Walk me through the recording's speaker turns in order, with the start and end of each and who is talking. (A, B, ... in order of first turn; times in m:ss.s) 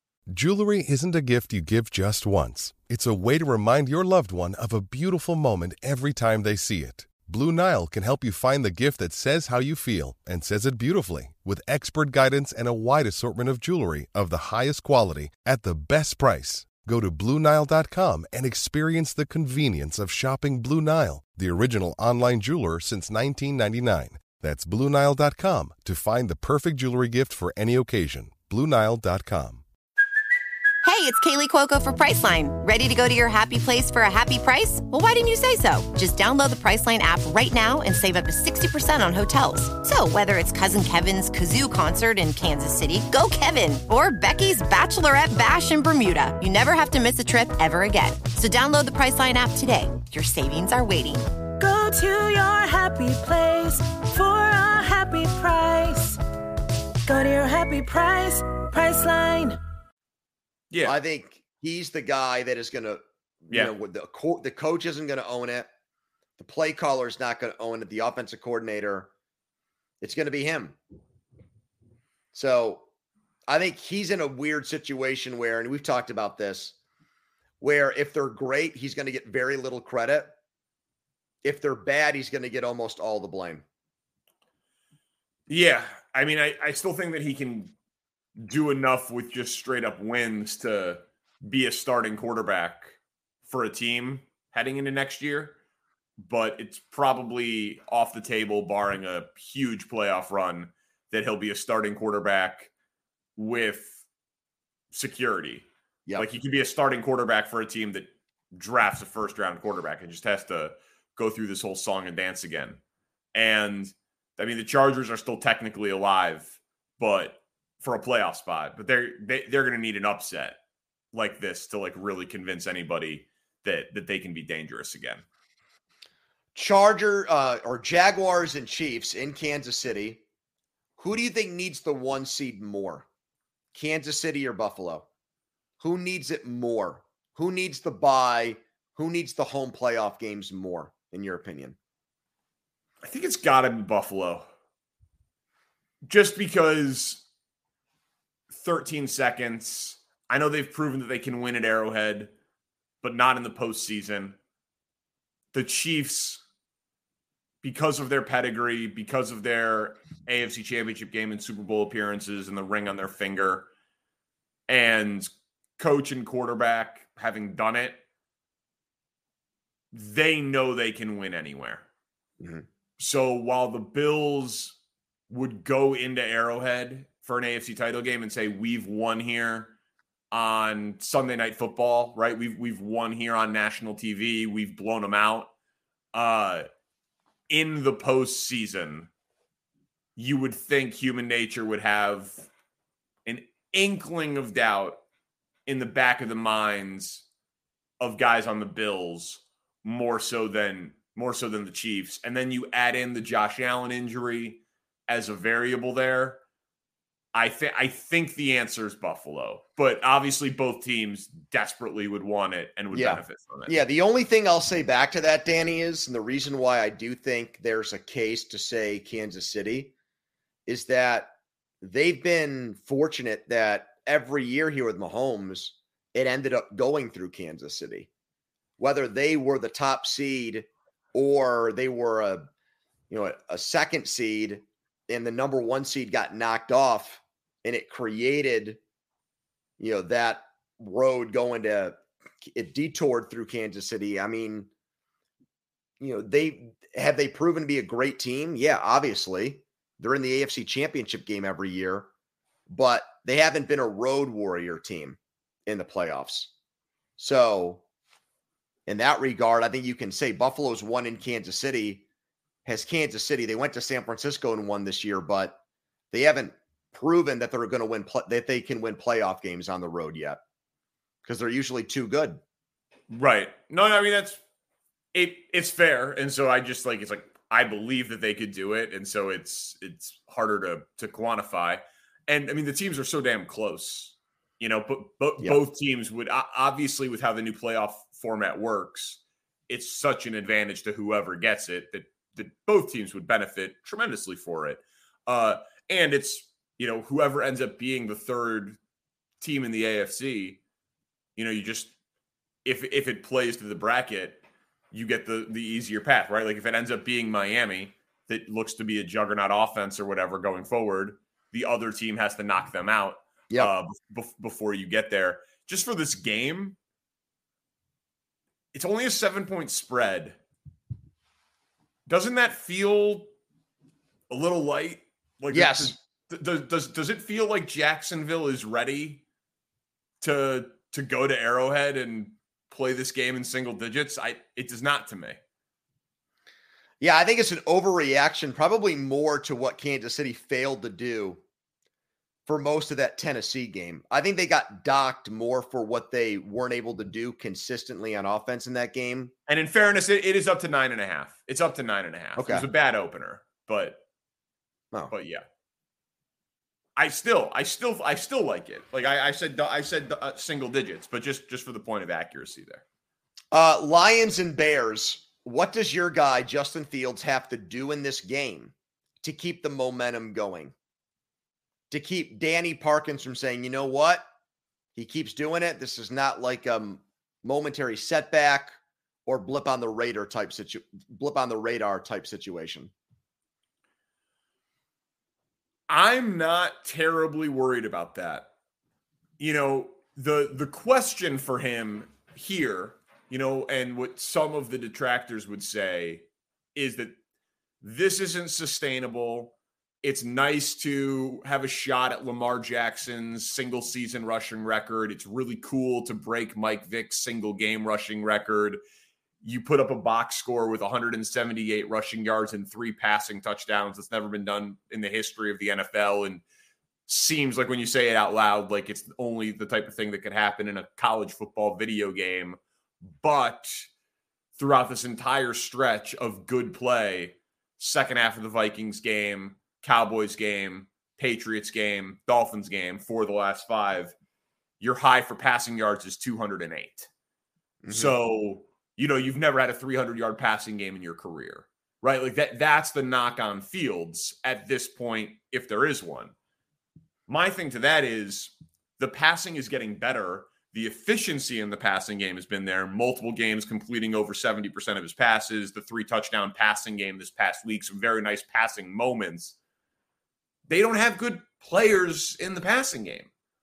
0:00.3-0:29.6 A
0:30.8-0:51.3 B
0:51.6-0:56.2 C
0:57.1-0:59.6 C
1:00.7-1:01.0 D
1:00.8-1:05.7 E
1:06.4-1:09.1 E
1:10.0-1:10.8 E
1:12.3-1:12.9 E
1:13.5-1:16.8 E
1:17.6-1:20.3 E
1:21.4-1:23.6 E
1:25.5-1:27.7 D
1:28.4-1:35.6 D
1:36.2-1:42.7 D
1:43.4-1:44.0 D
1:44.9-1:45.7 D
1:46.2-1:52.8 D
1:53.3-2:00.6 D
2:01.1-2:05.2 D
2:06.6-2:10.2 E
2:11.0-2:13.1 E
2:13.7-2:15.1 E
2:15.8-2:21.8 E
2:23.0-2:24.5 D
2:26.0-2:27.2 D
2:28.5-2:32.3 D
2:33.0-2:34.4 D
2:35.5-2:36.4 D
2:37.6-2:43.7 D
2:44.7-2:48.0 D
2:49.9-2:51.8 D
2:52.4-2:52.6 E
2:53.0-2:54.8 D
2:55.3-2:59.7 D
3:00.3-3:05.5 D
3:06.1-3:06.7 D
3:07.5-3:09.1 D
3:10.2-3:12.5 D
3:13.3-3:15.0 D
3:15.7-3:17.2 D
3:18.0-3:26.4 D
3:27.3-3:33.8 D
3:32.9-3:39.9 E
3:40.7-3:48.1 E
3:48.8-3:52.5 E
3:53.1-3:58.8 E
3:59.8-4:04.7 E
4:06.0-4:12.1 E
4:12.7-4:16.5 E
4:17.2-4:17.8 E
4:18.9-4:22.0 E
4:22.6-4:25.6 E
4:26.1-4:30.4 E
4:31.2-4:32.4 E
4:33.1-4:34.4 D
4:35.1-4:58.8 D
4:59.4-5:00.6 D
5:01.4-5:01.9 D
5:02.6-5:16.8 D
5:18.7-5:20.4 D
5:22.1-5:23.3 D
5:24.3-5:29.2 D
5:25.5-5:26.0 E
5:30.2-5:35.4 D
5:37.0-5:41.4 E
5:42.5-5:49.3 E
5:49.5-5:54.0 D
5:52.4-5:52.7 E
5:55.1-5:55.4 D
5:57.0-6:02.8 D
6:03.5-6:10.7 E
6:11.9-6:14.3 E
6:15.0-6:22.9 E
6:25.9-6:28.5 D
6:29.4-6:37.2 D
6:37.8-6:48.8 D
6:49.4-6:56.4 D
6:57.1-7:03.9 D
7:04.6-7:14.1 D
7:14.8-7:17.1 D
7:17.8-7:18.1 E
7:17.9-7:26.3 D
7:27.3-7:39.6 D
7:40.7-7:43.3 D